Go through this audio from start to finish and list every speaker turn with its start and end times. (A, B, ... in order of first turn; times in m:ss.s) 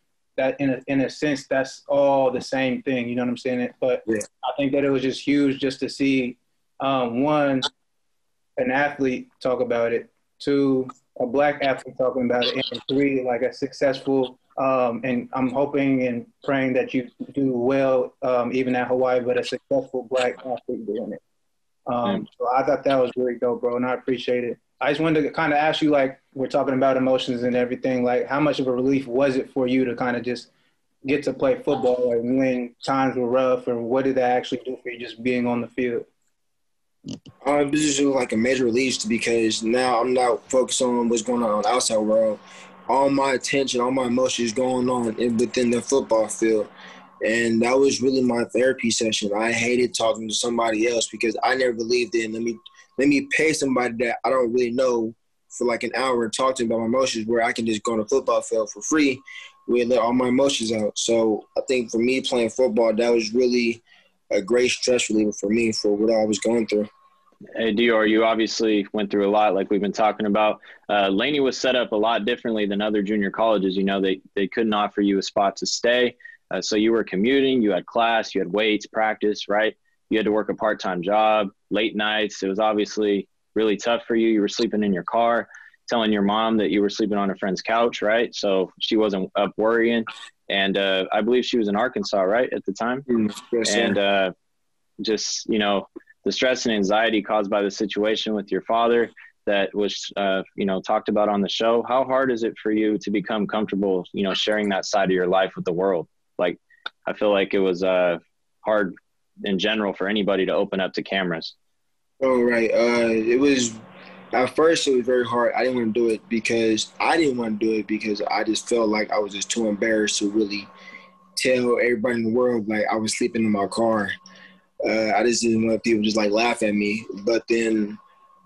0:00.4-0:07.7 A
0:08.6-0:21.2 A
0:21.9-0:30.5 A
0:31.0-0:36.1 A
0:37.4-0:46.7 B
0:47.2-1:06.9 B
1:07.5-1:33.0 C
1:33.1-1:34.0 B
1:33.6-1:34.3 C
1:35.0-1:51.5 C
1:52.2-1:53.8 B
1:54.3-2:00.7 B
2:01.4-2:04.2 B
2:04.8-2:08.0 B